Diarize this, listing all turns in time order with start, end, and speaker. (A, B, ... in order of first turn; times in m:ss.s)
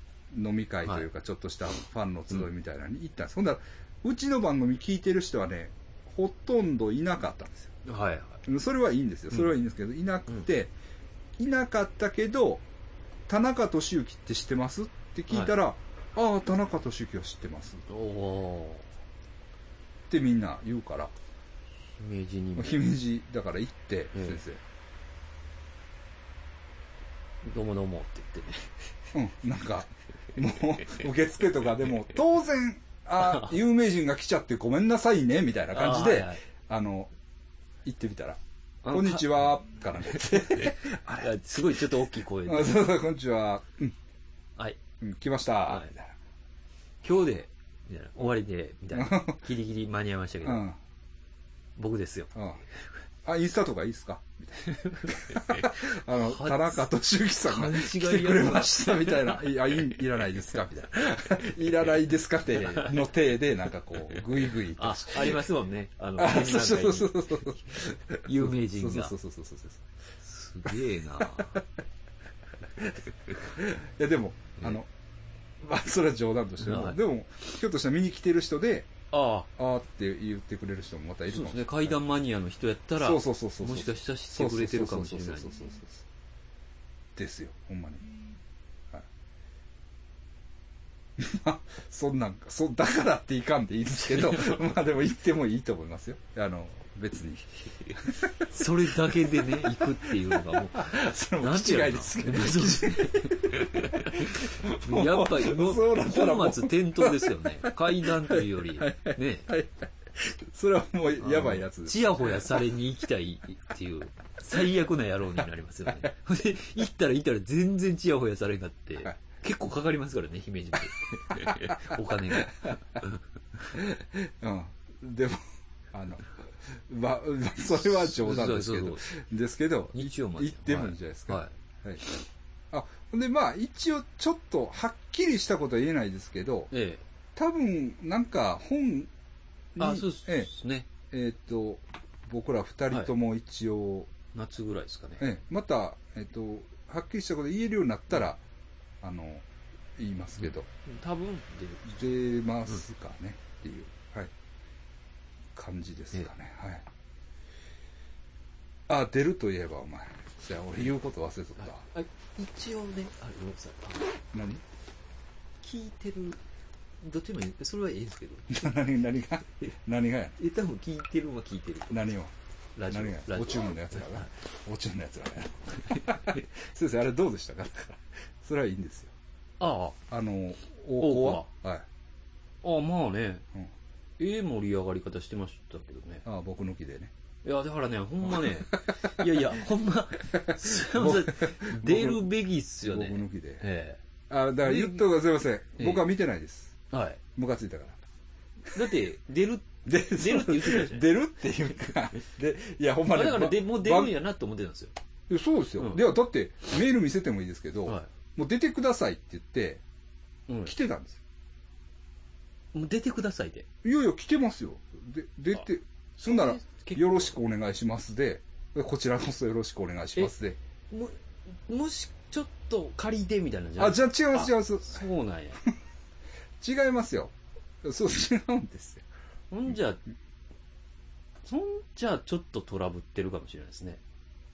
0:00.3-0:07.8 A
0:07.8-0:08.4 B
0:08.4-0:10.7 A
0:11.4-0:12.6 A
0:13.3-0:17.9 A
0:15.3-0:15.5 B
0:17.9-0:18.9 B
0:20.1-0:21.1 A
0:21.9-0:22.8 B
0:22.6-0:24.6 A
0:24.1-0:24.4 B
0:27.4-0:28.8 B
0:29.1-0:37.1 A
0:33.2-0:33.5 B
0:35.7-0:36.4 B
0:37.8-0:41.9 A
0:38.8-0:39.6 B
0:40.1-0:42.9 B
0:42.4-0:44.0 A
0:45.0-0:46.2 A
0:47.0-0:50.6 B
0:48.9-0:49.4 A
0:50.4-0:50.8 A
0:51.8-0:52.9 B
0:52.3-0:52.6 A
0:53.2-1:05.5 A
0:54.6-0:56.8 B
0:57.4-1:00.0 B
1:02.6-1:03.0 B
1:04.1-1:09.2 B
1:06.2-1:09.8 A
1:10.2-1:11.6 B
1:10.7-1:11.6 A
1:13.5-1:14.9 A
1:15.6-1:18.9 A
1:16.6-1:17.0 B
1:19.1-1:19.5 B
1:19.6-1:22.0 A
1:21.3-1:25.6 B
1:23.0-1:26.0 A
1:27.2-1:28.1 A
1:31.2-1:38.5 A
1:34.0-1:34.6 B
1:38.5-1:49.5 B
1:39.0-1:52.6 A
1:51.2-2:03.2 B
2:01.3-2:02.8 A
2:03.7-2:12.1 A
2:07.8-2:09.1 B
2:09.9-2:11.5 B
2:12.7-2:16.7 A
2:16.7-2:17.0 B
2:17.4-2:19.1 A
2:19.8-2:20.5 A
2:19.8-2:20.9 B
2:21.1-2:24.1 A
2:24.3-2:25.3 B
2:25.2-2:28.4 A
2:29.0-2:29.5 A
2:30.0-2:30.7 A
2:30.8-2:32.0 B
2:31.9-2:34.3 A
2:35.6-2:36.8 A
2:38.9-2:41.9 A
2:41.6-2:44.2 B
2:44.3-2:44.6 A
2:45.6-2:46.4 B
2:47.0-2:48.8 B
2:48.5-2:50.4 A
2:50.4-2:52.0 B
2:51.9-2:52.3 A
2:52.8-2:54.3 B
2:52.9-2:59.1 A
2:55.9-2:56.4 B
2:59.6-3:00.0 B
3:00.1-3:01.9 A
3:01.0-3:01.5 B
3:02.6-3:03.5 B
3:04.2-3:06.2 B
3:06.2-3:07.1 A
3:07.4-3:14.0 B
3:08.3-3:09.2 A
3:10.4-3:12.3 A
3:12.8-3:13.6 A
3:14.3-3:16.8 A
3:14.6-3:15.1 B
3:15.8-3:16.0 B
3:16.9-3:17.2 B
3:17.4-3:18.0 A
3:18.7-3:21.1 B
3:19.8-3:24.1 A
3:23.1-3:24.9 B
3:25.3-3:29.8 A
3:30.5-3:30.7 B
3:30.6-3:31.2 A
3:32.7-3:33.7 B
3:33.8-3:40.6 A
3:36.2-3:37.4 B
3:40.9-3:45.6 B
3:43.8-3:45.0 A
3:46.6-3:49.0 A
3:49.5-3:50.0 B
3:51.4-3:54.0 B